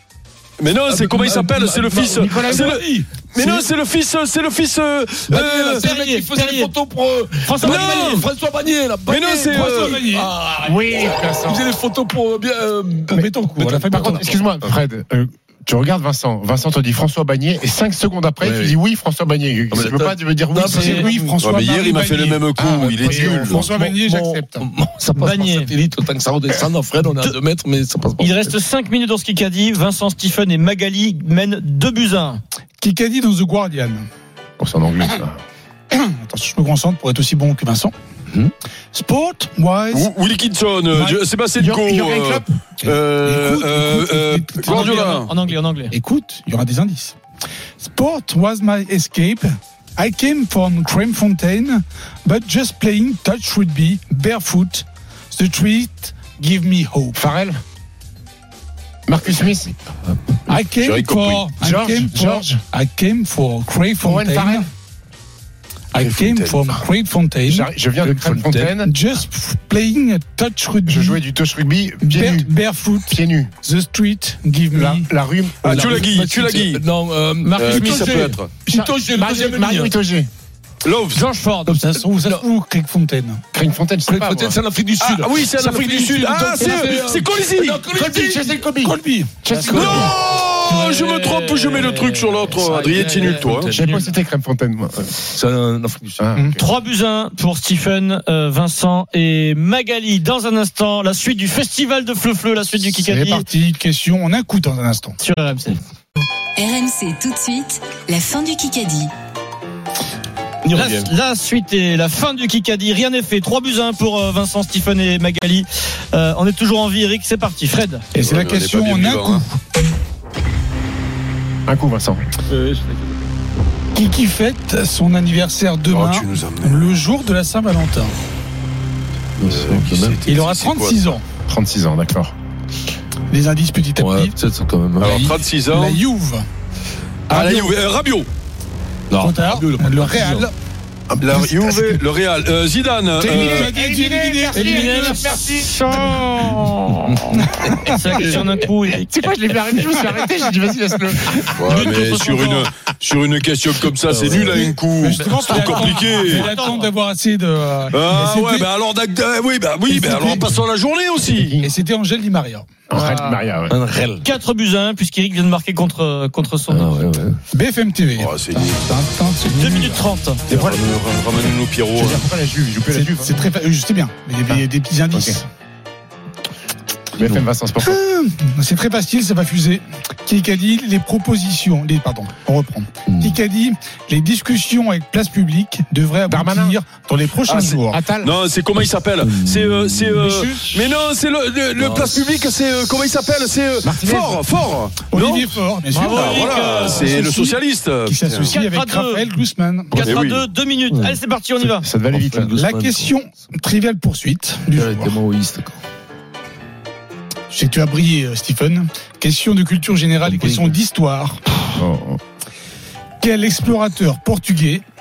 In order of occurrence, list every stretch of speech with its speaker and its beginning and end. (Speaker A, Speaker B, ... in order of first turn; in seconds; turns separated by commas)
Speaker A: 0.6-5.9, Speaker B: 0.9-3.7, Speaker C: 2.1-2.8, Speaker B: 5.3-14.2, Speaker D: 5.8-6.7, Speaker D: 7.4-8.2, Speaker A: 7.6-8.2, Speaker A: 9.1-10.0, Speaker E: 9.5-10.3, Speaker C: 10.6-11.7, Speaker C: 13.1-21.3, Speaker E: 13.1-14.4, Speaker B: 18.4-18.7, Speaker B: 19.7-21.2, Speaker E: 20.7-22.4, Speaker D: 20.7-21.0, Speaker A: 21.4-23.6, Speaker C: 22.6-24.5, Speaker E: 23.0-24.6, Speaker B: 23.6-28.5, Speaker D: 25.1-25.7, Speaker D: 28.2-32.4, Speaker E: 32.8-34.1, Speaker C: 34.6-35.4, Speaker E: 35.9-37.9, Speaker E: 38.9-40.1, Speaker A: 39.9-45.3, Speaker E: 40.9-41.2, Speaker C: 41.5-42.5, Speaker E: 42.9-45.3, Speaker D: 44.6-45.9, Speaker E: 45.9-47.1, Speaker E: 47.8-57.2, Speaker C: 57.1-57.6, Speaker C: 59.1-59.8, Speaker E: 60.5-64.7, Speaker A: 60.5-61.5, Speaker C: 61.6-62.6, Speaker C: 64.0-64.7, Speaker E: 65.9-71.2, Speaker A: 65.9-66.8, Speaker C: 67.5-68.9, Speaker B: 68.0-68.7, Speaker C: 70.8-72.5, Speaker E: 72.0-75.1, Speaker C: 73.0-73.5, Speaker C: 74.7-75.6, Speaker A: 75.6-76.8, Speaker B: 75.6-79.9, Speaker A: 77.5-78.5, Speaker C: 78.7-80.3, Speaker A: 80.8-81.2, Speaker D: 81.1-81.8, Speaker B: 81.7-82.4, Speaker E: 81.8-83.4, Speaker C: 83.5-84.6, Speaker B: 84.1-89.0, Speaker A: 85.0-87.8, Speaker C: 87.8-90.1, Speaker E: 88.9-89.2, Speaker D: 89.5-90.1, Speaker A: 89.7-93.7, Speaker D: 90.7-93.5, Speaker B: 93.2-94.0, Speaker C: 93.7-95.1, Speaker B: 95.2-96.3, Speaker C: 96.2-96.5, Speaker D: 96.5-103.4, Speaker E: 103.1-105.2, Speaker D: 105.2-105.8, Speaker F: 106.5-109.1, Speaker B: 110.6-111.1, Speaker D: 110.7-118.0, Speaker E: 118.1-119.5, Speaker A: 118.2-119.4, Speaker C: 121.7-122.2, Speaker E: 123.9-128.1, Speaker A: 125.9-126.9, Speaker B: 129.4-130.2, Speaker A: 129.4-131.1, Speaker E: 130.2-131.2, Speaker C: 131.5-132.3, Speaker E: 133.3-134.3, Speaker B: 134.0-135.3, Speaker A: 135.0-136.0, Speaker E: 135.1-136.4, Speaker E: 137.3-137.8, Speaker A: 137.3-138.3, Speaker B: 139.1-140.5, Speaker E: 139.2-140.5, Speaker A: 141.1-143.7, Speaker E: 141.2-142.0, Speaker E: 143.2-145.3, Speaker C: 143.2-145.7, Speaker D: 144.5-149.1, Speaker E: 147.4-148.2, Speaker C: 149.0-151.6, Speaker A: 151.5-156.5, Speaker D: 151.6-152.7, Speaker B: 154.1-154.6, Speaker E: 154.5-158.7, Speaker D: 155.2-156.9, Speaker A: 157.9-161.6, Speaker E: 159.8-160.5, Speaker C: 161.3-161.7, Speaker E: 161.6-162.7, Speaker C: 162.9-163.7, Speaker B: 163.0-164.2, Speaker D: 164.2-167.0, Speaker B: 166.7-167.4, Speaker E: 167.5-170.0, Speaker A: 168.1-168.8, Speaker D: 169.5-170.4, Speaker A: 170.5-172.2, Speaker C: 171.9-173.3, Speaker E: 172.9-175.4, Speaker C: 174.5-175.4, Speaker C: 177.2-178.0, Speaker E: 177.8-188.0, Speaker B: 183.1-183.3, Speaker C: 186.3-186.8, Speaker A: 187.4-198.6, Speaker C: 187.9-188.3, Speaker B: 189.2-190.4, Speaker B: 191.8-192.3, Speaker C: 193.8-194.4, Speaker E: 195.1-200.1, Speaker C: 195.9-196.3, Speaker D: 195.9-197.1, Speaker D: 198.5-199.3, Speaker D: 199.9-201.8, Speaker A: 200.0-200.4, Speaker B: 200.9-201.2, Speaker C: 201.8-202.5, Speaker B: 202.1-203.1, Speaker E: 202.5-205.2, Speaker B: 204.7-205.8, Speaker E: 207.5-211.6, Speaker B: 210.2-210.7, Speaker C: 211.8-212.2, Speaker E: 213.2-214.8